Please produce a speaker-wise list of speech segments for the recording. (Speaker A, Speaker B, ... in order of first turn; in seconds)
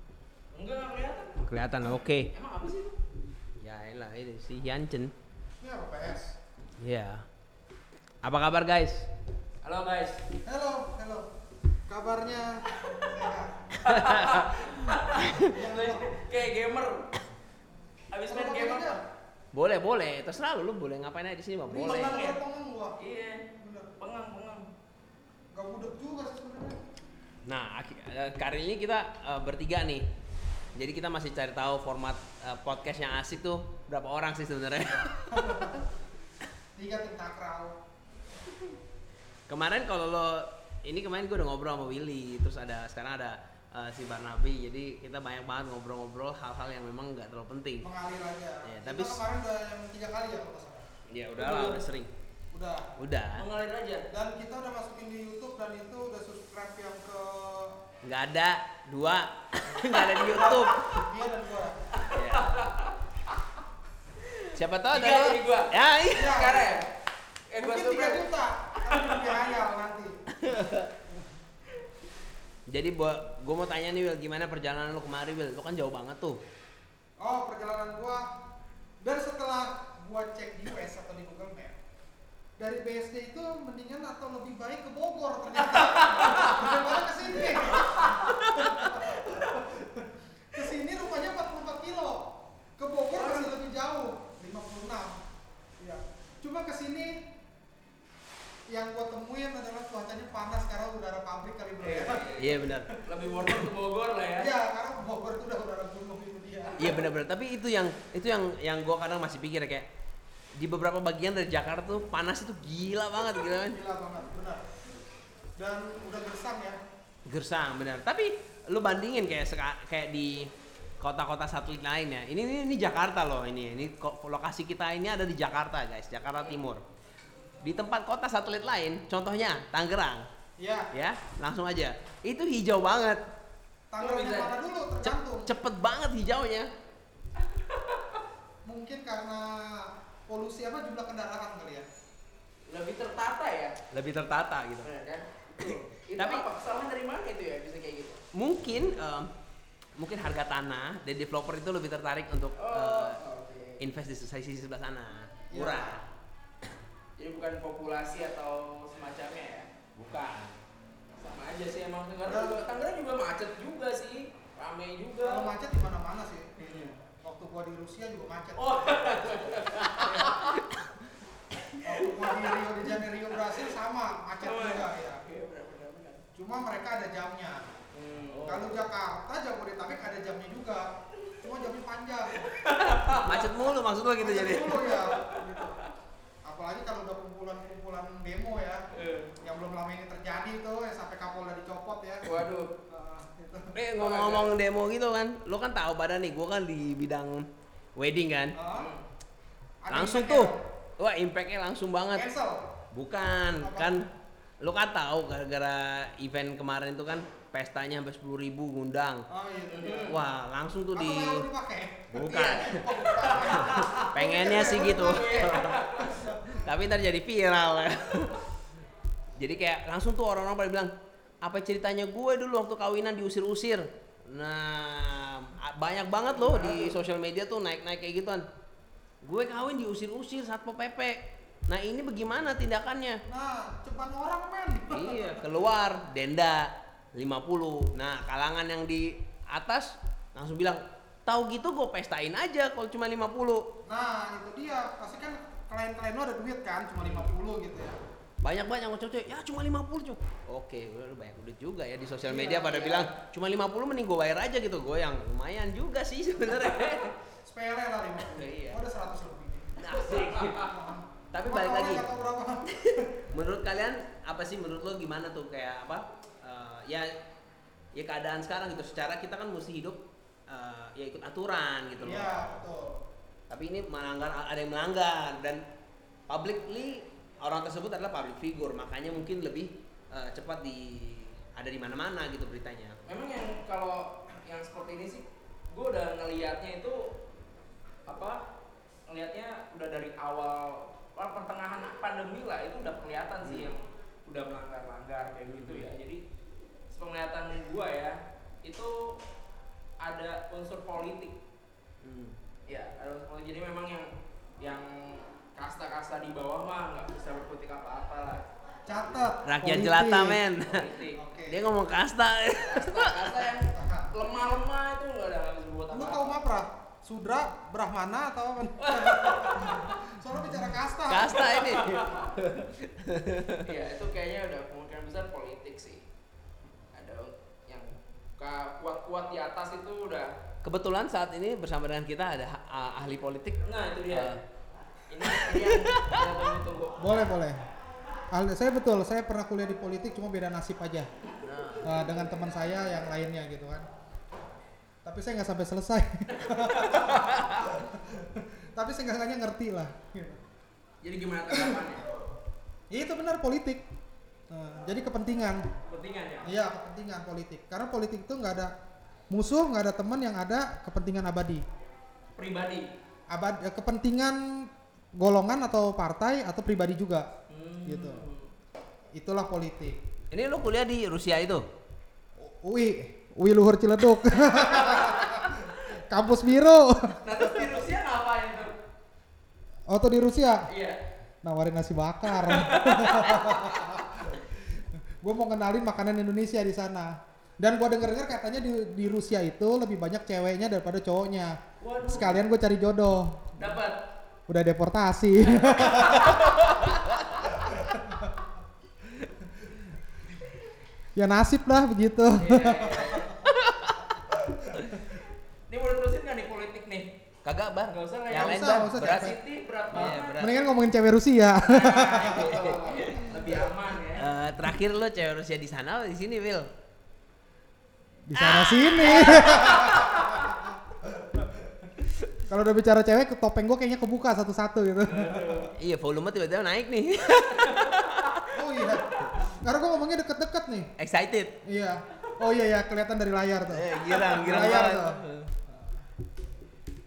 Speaker A: 0.5-1.4, 2.3-3.0, 9.6-10.2, 13.8-17.1, 18.1-18.9, 21.9-22.4, 23.0-23.4, 24.0-24.6, 51.4-51.8, 53.4-54.1, 62.0-63.0, 64.2-65.7, 66.2-66.9, 67.5-68.2, 68.9-69.4, 85.7-86.9, 87.6-88.9, 93.1-93.6, 101.8-104.5, 134.0-134.6, 137.4-138.2, 142.7-143.8, 144.8-148.2, 152.6-153.8, 157.2-159.9, 161.2-165.5, 166.6-166.9, 168.6-170.8, 171.7-172.6, 174.4-176.2, 177.9-178.7, 182.3-183.5, 185.1-185.4, 188.9-189.3, 192.2-192.7, 193.9-194.5, 198.7-199.0, 209.7-210.2, 212.2-216.2, 260.0-260.6, 283.1-287.1, 288.1-288.4, 289.1-296.2, 296.9-299.2, 300.0-301.4, 302.7-304.1, 304.6-308.4, 310.6-311.2, 312.6-316.4, 318.8-319.9, 321.4-322.3, 323.6-326.1, 326.9-330.4, 333.6-334.3, 335.1-337.2, 346.6-347.7, 351.0-352.1, 355.9-356.5, 362.4-362.9, 367.5-368.5, 374.5-375.6, 377.2-378.7, 380.7-381.0, 382.3-384.1, 391.8-392.4, 393.5-394.0, 395.6-396.8, 402.4-403.3, 405.7-407.1, 407.9-410.5, 411.6-414.3, 419.0-420.5, 425.1-425.7, 427.5-427.9
Speaker B: 1.4-2.3, 3.6-5.1, 6.8-7.2, 8.2-9.1, 13.9-15.3, 19.5-22.3, 27.4-30.1, 30.7-35.8, 39.5-47.9, 48.6-49.2, 51.1-52.1, 53.0-53.4, 58.0-61.0, 62.1-62.6, 64.5-66.4, 70.4-70.9, 72.7-76.4, 102.4-102.9, 106.8-109.9, 110.5-113.8, 117.2-126.8, 127.6-130.2, 130.9-133.2, 135.0-136.7, 143.9-144.9, 145.6-146.4, 148.3-149.3, 150.0-153.2, 153.8-156.0, 160.0-160.5, 183.0-184.9, 193.7-198.6, 199.9-202.3, 202.9-204.1, 204.6-209.3, 210.1-211.4, 212.1-216.0, 216.6-218.4, 219.4-228.4, 229.2-233.2, 234.9-243.6, 248.4-257.1, 258.3-258.8, 259.8-260.7, 261.3-262.1, 262.8-267.1, 267.9-272.6, 273.5-275.6, 276.3-283.0, 293.4-293.7, 295.4-295.9, 302.0-302.4, 309.4-310.8, 311.4-313.3, 321.1-323.6, 330.6-334.4, 335.2-336.2, 341.4-342.2, 370.3-371.6, 403.3-405.0, 407.4-409.3, 409.9-410.6, 412.2-413.6, 414.2-416.7, 418.3-419.9, 425.8-428.5, 431.0-431.6, 433.7-435.5
Speaker C: 5.6-6.4, 10.4-11.3, 11.9-13.8, 15.4-16.1, 18.3-19.0, 21.7-23.0, 23.6-23.9, 25.5-26.8, 35.3-35.8, 36.8-37.8, 47.8-50.9, 52.5-52.9, 54.1-57.7, 60.1-61.8, 66.1-66.8, 67.6-70.2, 77.2-78.2, 79.0-81.8, 82.6-95.2, 95.8-97.2, 98.7-103.7, 104.4-107.1, 113.7-114.6, 115.6-116.8, 130.6-130.9, 133.9-135.5, 138.6-141.9, 155.5-156.0, 162.2-162.6, 165.2-170.4, 171.8-175.2, 176.3-177.7, 178.4-182.5, 184.2-185.8, 186.4-188.8, 189.4-192.2, 192.9-193.7, 198.5-198.9, 199.8-200.6, 202.1-202.8, 203.6-204.0, 209.3-210.2, 210.9-216.7, 226.3-227.0, 233.3-235.4, 243.8-248.0, 252.2-253.1, 257.4-263.2, 272.0-273.0, 308.9-310.4, 311.1-311.7, 313.5-314.1, 315.9-321.8, 337.0-337.6, 338.3-341.1, 341.8-343.9, 345.0-350.4, 351.5-351.8, 352.9-353.8, 354.5-355.6, 356.4-358.7, 359.3-361.6, 363.3-367.3, 367.9-368.2, 369.1-370.0, 372.4-377.8, 379.9-380.6, 381.4-384.4, 385.2-393.7, 394.5-396.6, 397.6-398.3, 401.1-403.3, 408.3-409.4, 409.9-412.8, 418.3-421.4, 422.5-425.7, 428.5-430.9, 431.6-435.2, 435.7-436.0